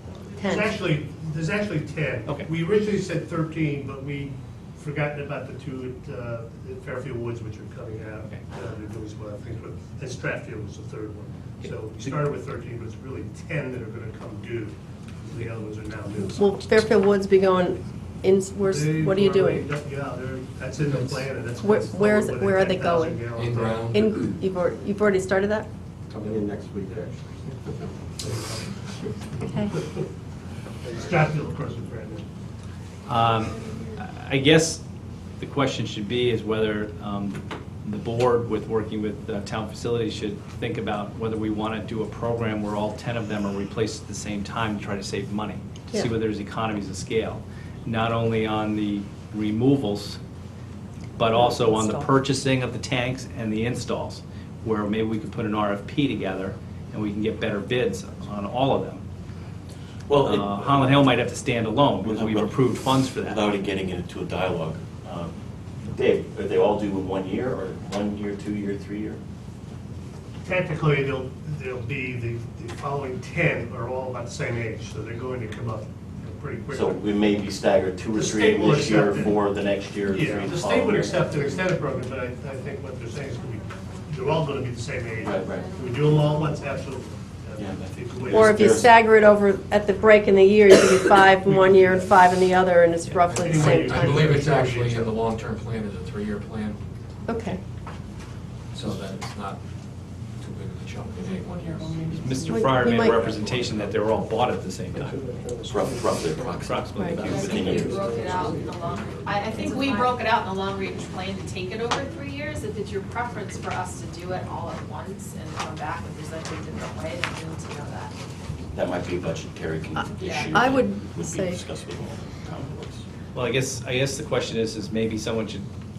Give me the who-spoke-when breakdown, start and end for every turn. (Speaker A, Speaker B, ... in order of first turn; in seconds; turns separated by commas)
Speaker A: 0.4-0.7, Speaker B: 0.4-16.5, Speaker C: 11.7-12.2, Speaker A: 16.4-19.7, Speaker B: 18.6-24.0, Speaker A: 21.6-23.3, Speaker D: 23.4-24.1, Speaker A: 23.9-25.7, Speaker E: 26.1-27.0, Speaker B: 26.8-27.5, Speaker B: 28.2-30.0, Speaker A: 29.4-29.8, Speaker B: 30.8-32.3, Speaker C: 33.1-34.8, Speaker C: 35.4-50.2, Speaker C: 51.2-59.0, Speaker A: 51.5-52.1, Speaker F: 60.1-60.9, Speaker C: 60.1-63.5, Speaker F: 62.0-69.2, Speaker B: 70.5-77.3, Speaker F: 76.7-81.3, Speaker B: 78.2-79.4, Speaker B: 80.1-88.8, Speaker F: 85.2-85.8, Speaker F: 87.6-88.9, Speaker A: 88.3-94.3, Speaker B: 91.4-92.2, Speaker D: 93.3-96.8, Speaker B: 93.4-95.2, Speaker A: 97.3-97.6, Speaker D: 98.7-99.7, Speaker D: 100.3-103.9, Speaker E: 101.3-102.5, Speaker C: 102.2-105.3, Speaker A: 102.5-103.3, Speaker E: 105.3-106.5, Speaker F: 105.7-108.0, Speaker C: 106.6-107.3, Speaker A: 106.9-107.4, Speaker E: 107.1-109.8, Speaker G: 107.2-118.2, Speaker F: 118.7-123.0, Speaker A: 120.0-121.6, Speaker G: 120.2-120.5, Speaker C: 123.3-125.7